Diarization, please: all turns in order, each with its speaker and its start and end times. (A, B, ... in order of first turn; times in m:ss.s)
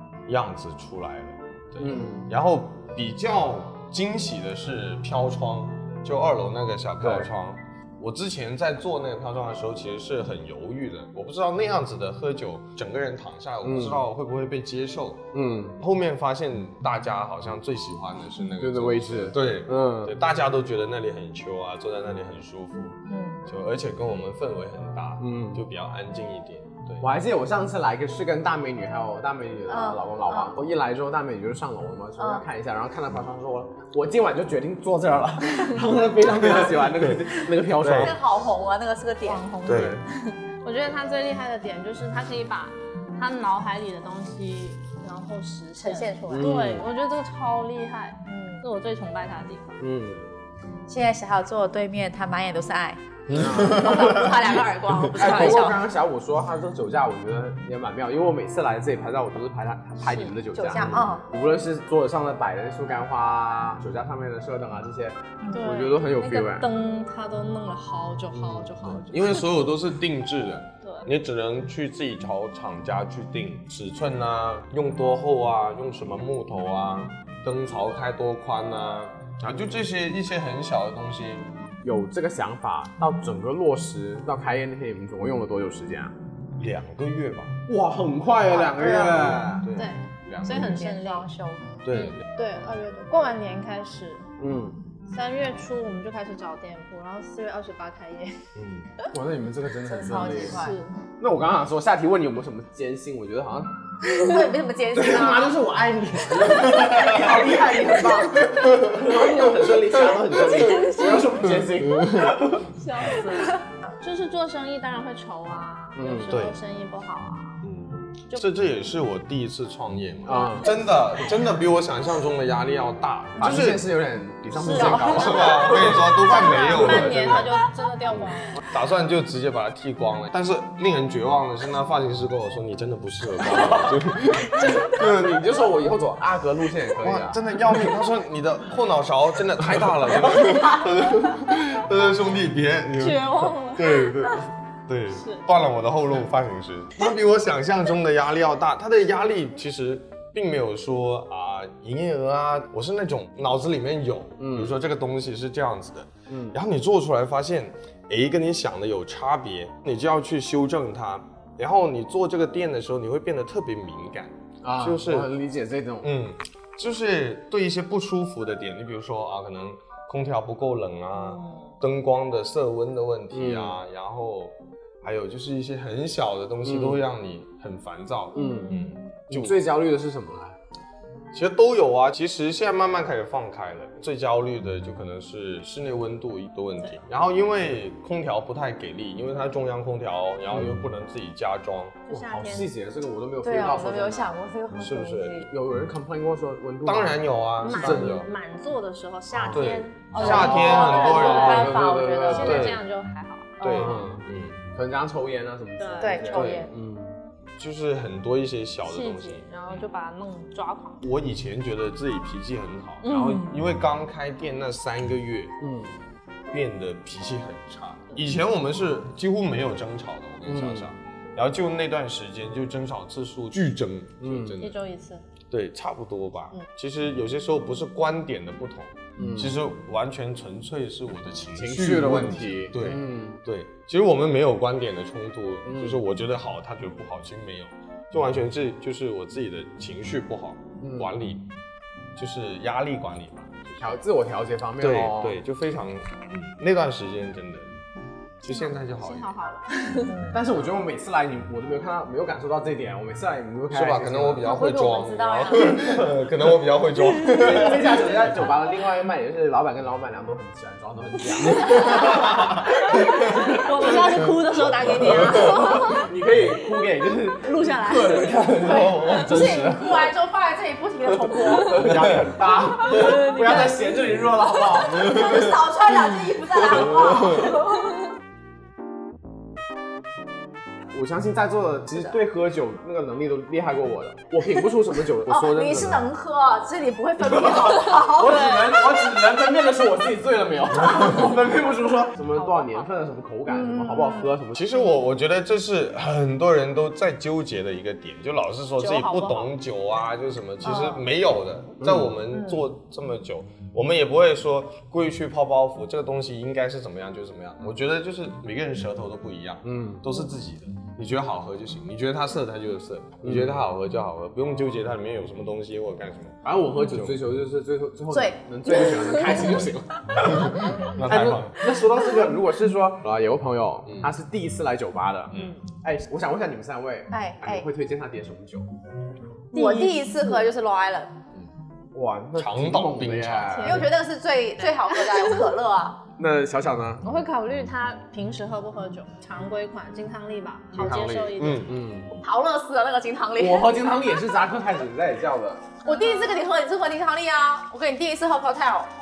0:00.3-0:15.3 A
0:01.8-0:02.3 B
0:07.0-0:07.3 B
0:13.6-0:14.0 B
0:15.3-0:15.8 B
0:15.8-0:27.1 A
0:18.6-0:20.2 B
0:23.1-0:23.4 C
0:25.2-0:25.6 B
0:27.0-0:38.2 B
0:29.7-0:30.6 C
0:32.2-0:32.4 C
0:36.4-0:38.2 A
0:38.0-0:39.9 C
0:39.2-0:39.6 D
0:39.6-0:40.0 A
0:39.7-0:40.0 B
0:40.6-0:49.8 D
0:45.8-0:46.5 C
0:46.3-0:46.8 B
0:48.3-0:48.6 C
0:49.8-0:50.3 B
0:50.9-0:53.0 C
0:53.3-0:55.4 A
0:53.3-0:54.1 B
0:53.6-0:55.8 C
0:55.2-1:06.7 B
1:00.1-1:00.3 D
1:00.6-1:01.2 C
1:00.8-1:01.2 A
1:05.5-1:09.5 D
1:08.8-1:21.5 A
1:10.8-1:11.1 D
1:21.8-1:26.1 B
1:26.6-1:27.6 A
1:27.7-1:29.7 B
1:28.5-1:29.3 C
1:28.9-1:30.8 A
1:29.8-1:31.3 D
1:30.5-1:31.6 C
1:31.8-1:32.2 A
1:31.9-1:34.2 D
1:34.4-1:34.8 B
1:35.1-1:38.4 D
1:38.6-1:38.9 A
1:39.1-1:40.6 B
1:39.9-1:40.8 C
1:40.5-1:41.0 D
1:41.2-1:43.7 B
1:44.1-1:45.6 C
1:44.9-1:52.7 B
1:46.6-1:47.2 A
1:50.3-1:51.4 D
1:52.7-1:57.6 D
1:56.0-1:56.3 B
1:56.3-1:56.6 A
1:57.6-2:03.9 A
2:00.2-2:00.7 B
2:00.4-2:00.8 D
2:03.4-2:07.4 B
2:04.7-2:07.5 A
2:04.7-2:05.0 D
2:04.8-2:05.4 C
2:06.2-2:08.6 D
2:08.2-2:15.4 A
2:13.5-2:14.0 B
2:14.5-2:17.4 B
2:17.0-2:45.3 A
2:23.0-2:24.4 D
2:25.2-2:25.5 D
2:34.4-2:34.8 B
2:36.3-2:36.6 B
2:44.6-2:46.1 B
2:46.0-2:59.6 A
2:51.4-2:51.6 D
2:53.3-2:53.8 B
2:56.6-2:57.0 B
2:58.4-2:58.7 B
2:58.4-2:58.9 D
2:59.3-3:00.6 B
3:01.3-3:12.1 A
3:10.5-3:10.8 B
3:12.1-3:12.7 D
3:12.1-3:14.3 B
3:13.4-3:15.5 C
3:14.7-3:15.5 A
3:15.5-3:18.2 B
3:16.8-3:18.3 A
3:17.6-3:23.8 D
3:19.3-3:22.7 B
3:19.5-3:22.8 A
3:20.2-3:22.6 C
3:23.6-3:23.9 C
3:23.6-3:24.6 A
3:23.7-3:24.2 B
3:24.8-3:27.2 B
3:25.8-3:26.5 D
3:26.0-3:26.7 C
3:26.3-3:26.7 A
3:27.6-3:29.9 A
3:28.8-3:31.0 D
3:31.0-3:35.6 A
3:33.0-3:33.6 D
3:35.6-3:36.0 B
3:36.5-3:44.8 A
3:40.4-3:40.9 B
3:44.2-3:44.6 B
3:44.6-3:45.2 D
3:45.5-4:01.5 A
3:49.2-3:49.6 B
3:51.6-3:53.4 B
3:55.6-3:56.0 B
4:00.8-4:01.1 B
4:02.2-4:04.0 A
4:03.8-4:05.4 B
4:04.8-4:07.7 A
4:08.4-4:09.4 A
4:08.5-4:10.2 D
4:10.1-4:10.4 C
4:10.3-4:14.5 B
4:13.7-4:18.0 A
4:14.4-4:15.8 C
4:15.6-4:16.2 B
4:17.2-4:24.3 B
4:21.7-4:22.4 A
4:22.9-4:26.1 D
4:22.9-4:23.4 A
4:25.0-4:25.6 A
4:25.4-4:30.1 B
4:27.4-4:28.5 D
4:27.9-4:29.4 A
4:28.7-4:32.0 C
4:31.5-4:35.2 B
4:32.8-4:34.0 D
4:34.8-4:37.9 C
4:35.0-4:35.5 A
4:36.8-4:37.4 A
4:40.9-4:46.0 B
4:45.3-4:48.6 C
4:47.2-4:54.6 B
4:48.3-4:48.6 D
4:52.4-4:52.9 D
4:53.5-4:54.3 C
4:54.5-5:17.2 A
4:58.8-4:59.5 D
5:00.6-5:01.0 C
5:01.8-5:02.2 B
5:02.3-5:02.6 C
5:09.6-5:10.0 B
5:13.2-5:13.6 B
5:16.4-5:28.7 B
5:18.1-5:19.5 C
5:20.2-5:21.6 A
5:23.9-5:24.1 A
5:25.3-5:25.6 A
5:25.3-5:25.6 D
5:27.1-5:27.7 C
5:29.5-5:30.4 D
5:29.5-5:31.1 C
5:31.9-5:33.9 B
5:32.4-5:33.9 A
5:33.5-5:33.9 D
5:33.6-5:36.0 C
5:34.6-5:35.5 D
5:36.2-5:37.0 B
5:37.0-5:41.7 D
5:40.7-5:42.2 B
5:41.3-5:41.8 A
5:42.2-5:43.7 C
5:43.4-5:45.6 B
5:45.8-5:48.9 C
5:45.9-5:46.4 D